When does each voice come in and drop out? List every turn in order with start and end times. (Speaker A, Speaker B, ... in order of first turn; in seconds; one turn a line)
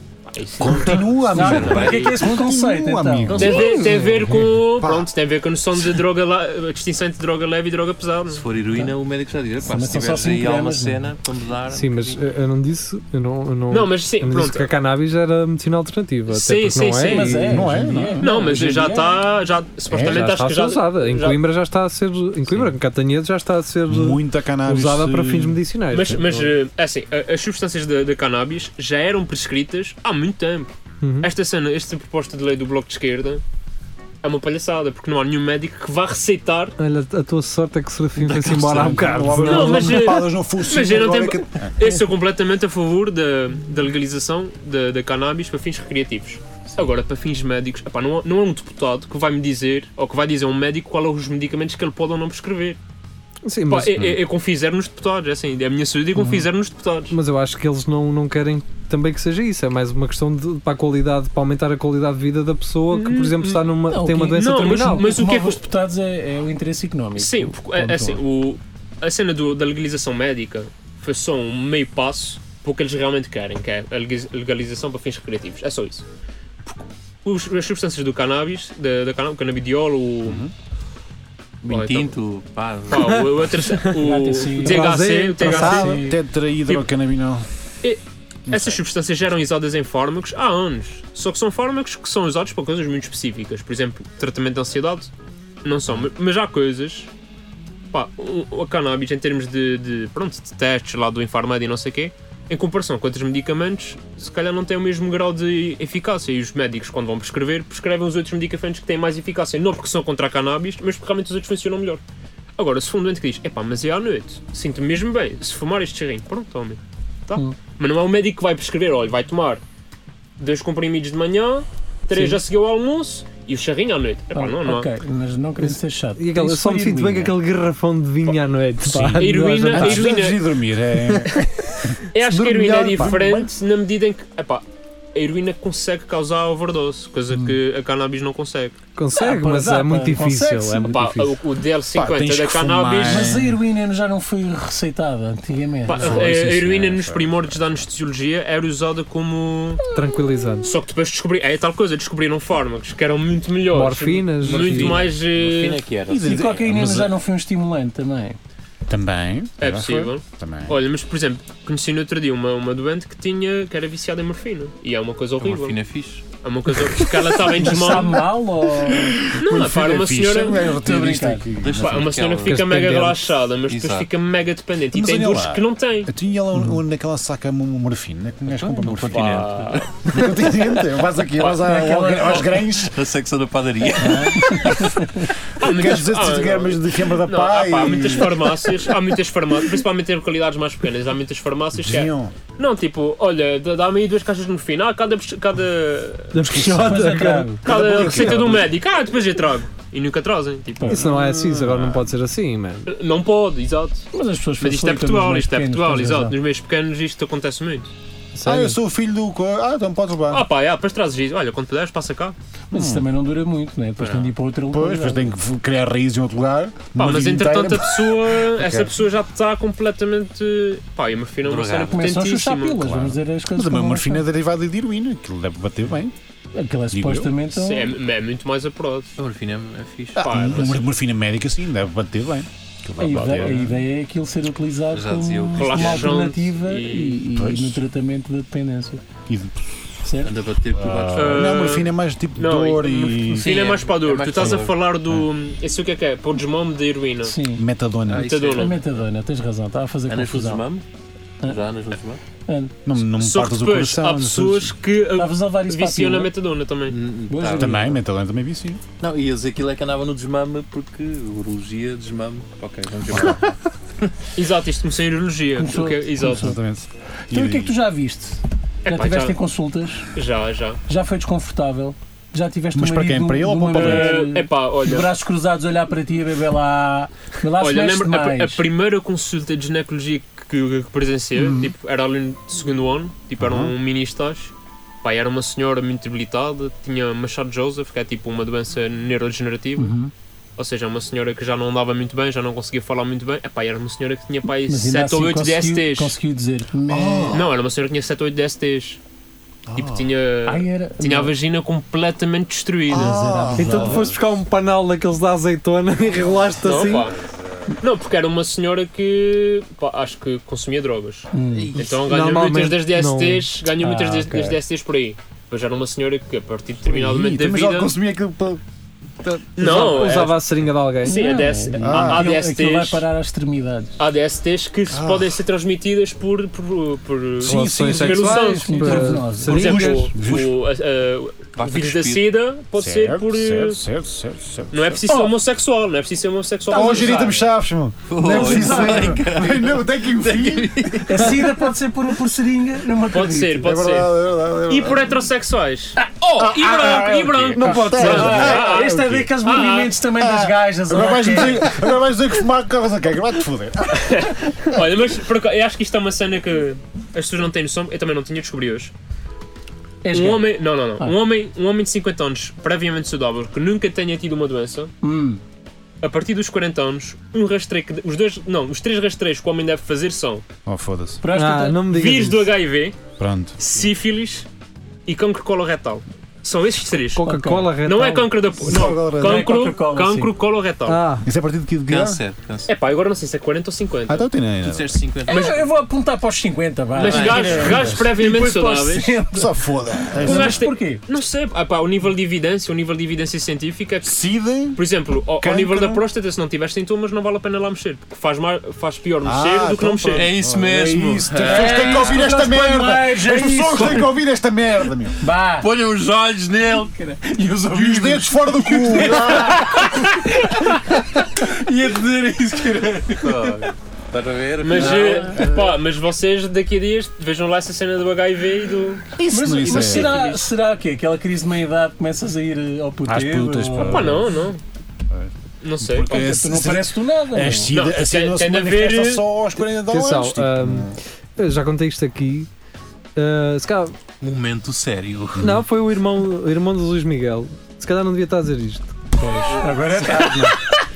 Speaker A: 0.3-1.9
Speaker B: 0.6-5.1
Speaker C: 0.7-3.6
Speaker D: 1.4-2.3
Speaker A: 3.3-8.4
Speaker E: 3.7-4.2
Speaker D: 8.3-12.2
Speaker C: 9.6-11.1
Speaker E: 11.7-17.8
Speaker A: 13.7-14.7
Speaker A: 16.3-17.4
Speaker C: 17.0-19.2
Speaker B: 17.5-18.3
Speaker A: 18.2-21.4
Speaker B: 19.9-20.2
Speaker E: 20.0-26.4
Speaker B: 23.9-26.2
Speaker A: 25.9-33.4
Speaker E: 31.0-31.3
Speaker A: 34.2-36.8
Speaker E: 36.8-40.0
Speaker D: 38.2-39.3
Speaker B: 38.6-41.7
Speaker A: 39.4-52.8
Speaker E: 53.5-54.0
Speaker A: 53.7-57.1
Speaker C: 56.2-56.5
Speaker E: 57.1-65.1
Speaker A: 62.9-65.6
Speaker C: 63.9-68.2
Speaker A: 67.2-76.0
Speaker A: 77.2-80.5
Speaker B: 80.2-80.5
Speaker D: 81.6-83.5
Speaker A: 81.7-82.1
Speaker A: 82.9-86.0
Speaker C: 84.0-86.2
Speaker E: 84.6-86.0
Speaker B: 86.0-87.5
Speaker A: 87.8-95.1
Speaker B: 88.5-88.8
Speaker A: 95.6-97.1
Speaker A: 97.9-112.0
Speaker A: 112.6-119.6
Speaker A: 120.4-124.9
Speaker C: 122.1-122.4
Speaker C: 124.3-127.3
Speaker E: 125.6-130.1
Speaker B: 128.8-131.9
Speaker A: 129.2-130.5
Speaker A: 132.1-138.8
Speaker E: 132.2-133.2
Speaker B: 132.9-133.5
Speaker E: 139.0-141.3
Speaker C: 139.2-141.0
Speaker A: 140.9-143.3
Speaker B: 141.9-143.6
Speaker C: 143.0-146.5
Speaker A: 145.9-149.8
Speaker B: 146.0-147.5
Speaker E: 149.9-150.7
Speaker A: 150.6-155.8
Speaker E: 153.7-155.0
Speaker D: 154.4-157.0
Speaker B: 156.1-157.1
Speaker C: 156.1-158.4
Speaker B: 158.9-160.8
Speaker A: 159.6-165.8
Speaker D: 165.4-166.3
Speaker A: 166.3-168.3
Speaker C: 167.4-169.4
Speaker A: 169.4-170.7
Speaker B: 169.4-172.2
Speaker C: 170.7-171.6
Speaker D: 171.6-172.8
Speaker A: 171.8-176.1
Speaker E: 172.5-173.3
Speaker D: 173.7-174.1
Speaker B: 174.9-179.5
Speaker D: 178.5-179.9
Speaker A: 179.1-180.1
Speaker B: 180.1-183.0
Speaker C: 181.5-182.4
Speaker D: 182.9-184.6
Speaker B: 184.0-184.8
Speaker C: 184.0-185.3
Speaker B: 185.6-188.9
Speaker A: 185.6-196.4
Speaker B: 191.7-192.3
Speaker E: 196.3-198.4
Speaker B: 196.4-198.7
Speaker C: 196.5-198.5
Speaker A: 197.6-201.0
Speaker C: 200.8-201.1
Speaker E: 200.9-202.9
Speaker B: 201.0-202.1
Speaker A: 202.9-204.1
Speaker C: 204.1-206.4
Speaker A: 204.6-207.9
Speaker E: 208.3-208.8
Speaker B: 208.4-210.5
Speaker A: 210.3-212.3
Speaker C: 212.7-215.3
Speaker B: 212.7-213.1
Speaker D: 214.0-214.3
Speaker B: 214.7-218.9
Speaker A: 216.9-223.0
Speaker D: 221.4-222.1
Speaker C: 221.9-224.2
Speaker B: 222.9-226.1
Speaker C: 226.5-228.0
Speaker B: 226.9-227.3
Speaker A: 227.5-229.1
Speaker D: 229.2-230.8
Speaker B: 230.2-233.7
Speaker A: 230.2-230.9
Speaker C: 233.0-239.0
Speaker D: 233.3-233.6
Speaker D: 234.9-236.2
Speaker A: 235.6-237.2
Speaker B: 237.4-237.8
Speaker B: 239.3-239.6
Speaker C: 240.1-240.3
Speaker D: 240.2-241.7
Speaker B: 240.8-243.5
Speaker A: 241.1-247.4
Speaker D: 243.3-244.8
Speaker C: 247.2-247.6
Speaker B: 247.5-248.5
Speaker D: 248.1-249.0
Speaker A: 248.2-248.8
Speaker C: 248.6-250.6
Speaker D: 250.1-250.8
Speaker D: 251.4-252.2
Speaker C: 252.5-252.8
Speaker B: 252.9-254.8
Speaker A: 253.2-257.0
Speaker C: 255.2-256.3
Speaker D: 256.9-257.9
Speaker C: 257.3-258.0
Speaker B: 257.6-258.8
Speaker D: 259.0-263.5
Speaker B: 263.1-263.4
Speaker A: 264.4-266.5
Speaker C: 265.6-266.6
Speaker B: 266.2-267.7
Speaker C: 267.3-270.1
Speaker A: 268.9-269.4
Speaker A: 270.1-270.8
Speaker C: 270.9-278.7
Speaker B: 272.7-274.2
Speaker A: 273.7-275.1
Speaker A: 277.6-289.9
Speaker C: 281.4-281.7
Speaker B: 283.4-283.8
Speaker C: 289.8-290.1
Speaker A: 290.6-296.1
Speaker C: 294.7-297.4
Speaker B: 296.9-297.5
Speaker A: 297.3-299.0
Speaker B: 299.7-300.0
Speaker A: 299.8-303.2
Speaker C: 300.5-301.3
Speaker B: 302.9-304.1
Speaker C: 302.9-304.1
Speaker E: 303.6-307.1
Speaker A: 306.6-307.2
Speaker A: 307.8-317.9
Speaker C: 311.3-311.8
Speaker D: 311.5-312.1
Speaker E: 311.9-314.4
Speaker B: 316.9-318.6
Speaker B: 319.2-319.9
Speaker A: 319.6-320.5
Speaker E: 319.6-321.3
Speaker A: 321.1-323.1
Speaker C: 321.1-324.0
Speaker B: 321.8-322.3
Speaker A: 324.0-333.8
Speaker B: 324.9-325.4
Speaker B: 327.4-328.5
Speaker E: 327.4-330.1
Speaker C: 328.2-330.0
Speaker B: 329.5-330.6
Speaker D: 331.6-332.3
Speaker B: 332.8-335.0
Speaker A: 334.7-337.3
Speaker C: 335.1-335.4
Speaker B: 336.7-341.1
Speaker C: 336.7-337.4
Speaker D: 338.1-341.4
Speaker C: 338.2-339.2
Speaker C: 341.1-343.8
Speaker A: 343.1-344.1
Speaker B: 343.6-345.2
Speaker A: 344.7-350.0
Speaker B: 346.4-349.4
Speaker C: 347.6-351.9
Speaker E: 347.9-348.2
Speaker B: 350.2-354.3
Speaker A: 354.0-358.9
Speaker C: 360.0-361.2
Speaker A: 360.1-364.9
Speaker C: 365.0-365.4
Speaker A: 366.0-370.4
Speaker B: 370.7-371.2
Speaker C: 371.2-371.9
Speaker E: 371.3-372.5
Speaker A: 371.9-373.0
Speaker B: 373.2-373.6
Speaker A: 373.6-374.5
Speaker A: 375.1-381.0
Speaker E: 377.1-378.4
Speaker C: 377.3-377.7
Speaker B: 378.6-379.6
Speaker C: 378.8-380.4
Speaker E: 380.9-381.3
Speaker B: 381.2-382.2
Speaker D: 381.9-382.7
Speaker A: 382.7-384.3
Speaker B: 384.1-385.0
Speaker D: 384.6-385.6
Speaker C: 385.3-391.1
Speaker A: 385.3-385.6
Speaker A: 386.9-389.2
Speaker D: 387.0-387.9
Speaker B: 387.7-388.0
Speaker B: 389.3-390.7
Speaker A: 390.2-394.1
Speaker B: 394.0-394.8
Speaker A: 394.8-400.3
Speaker B: 395.4-396.0
Speaker B: 399.2-405.2
Speaker D: 400.1-402.2
Speaker C: 401.4-404.1
Speaker C: 405.2-405.7
Speaker D: 405.6-406.9
Speaker C: 406.8-413.7
Speaker B: 407.7-409.8
Speaker D: 413.2-415.7
Speaker A: 414.6-420.5
Speaker C: 414.7-415.5
Speaker B: 419.2-420.3
Speaker C: 419.3-424.2
Speaker B: 423.1-424.3
Speaker A: 423.8-424.6
Speaker B: 425.1-431.0
Speaker A: 425.6-426.3
Speaker C: 426.1-427.7
Speaker A: 427.7-429.3
Speaker E: 429.9-432.5
Speaker E: 433.2-434.0
Speaker D: 434.2-435.5
Speaker E: 435.4-438.9
Speaker C: 439.2-440.7